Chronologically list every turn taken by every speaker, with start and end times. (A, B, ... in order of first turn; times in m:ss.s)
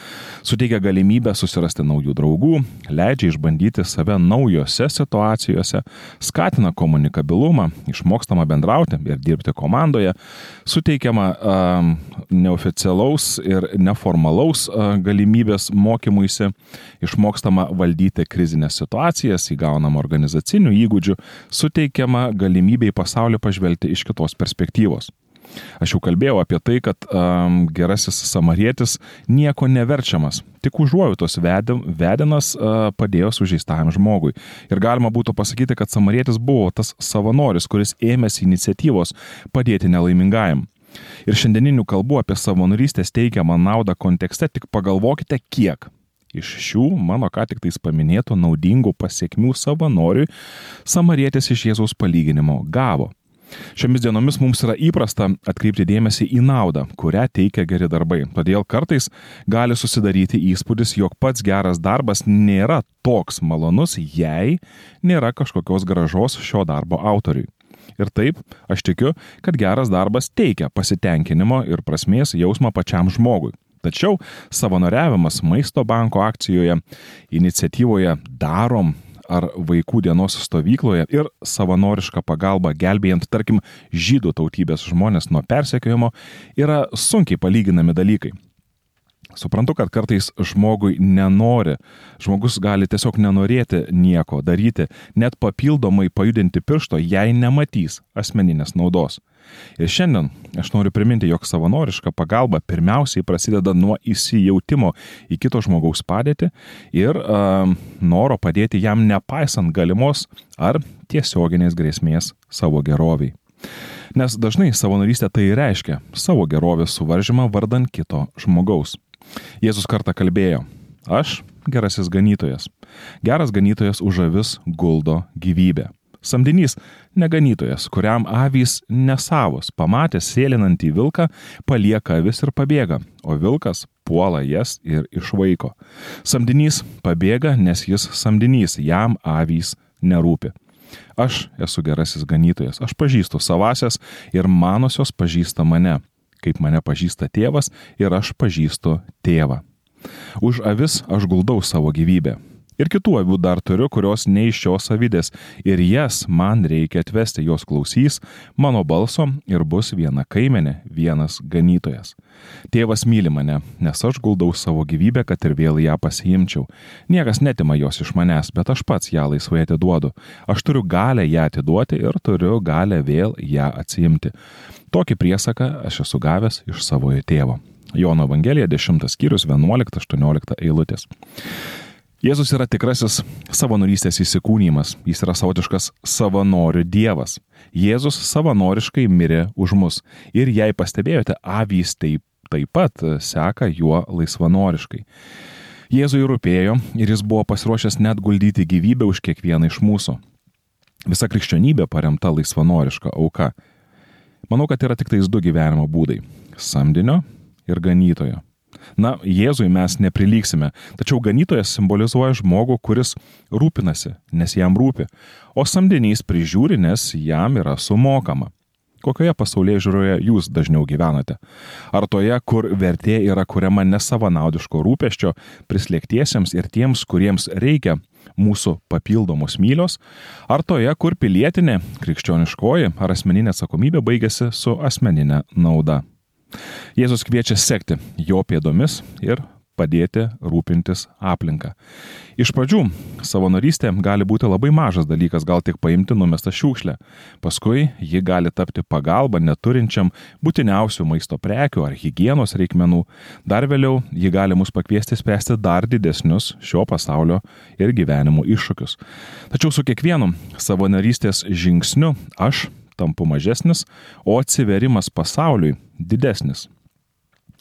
0:00.4-0:25.1 A
0:25.8-0:40.7 A
0:41.3-0:50.3 A
0:50.8-0:53.1 A
0:53.8-1:28.4 A
1:29.4-1:39.2 A
1:39.8-1:53.4 A
1:54.2-1:59.0 A
1:59.6-2:02.7 A
2:03.2-2:20.5 A
2:21.2-2:29.6 A
2:30.4-2:42.2 A
2:42.7-2:54.3 A
2:54.9-3:01.1 A
3:02.2-3:15.0 A
3:15.9-3:20.2 A
3:21.1-3:23.5 A
3:24.5-3:28.4 A
3:29.0-3:41.4 A
3:41.9-3:56.0 A
3:57.0-4:01.8 A
4:02.4-4:19.0 A
4:19.5-4:26.7 A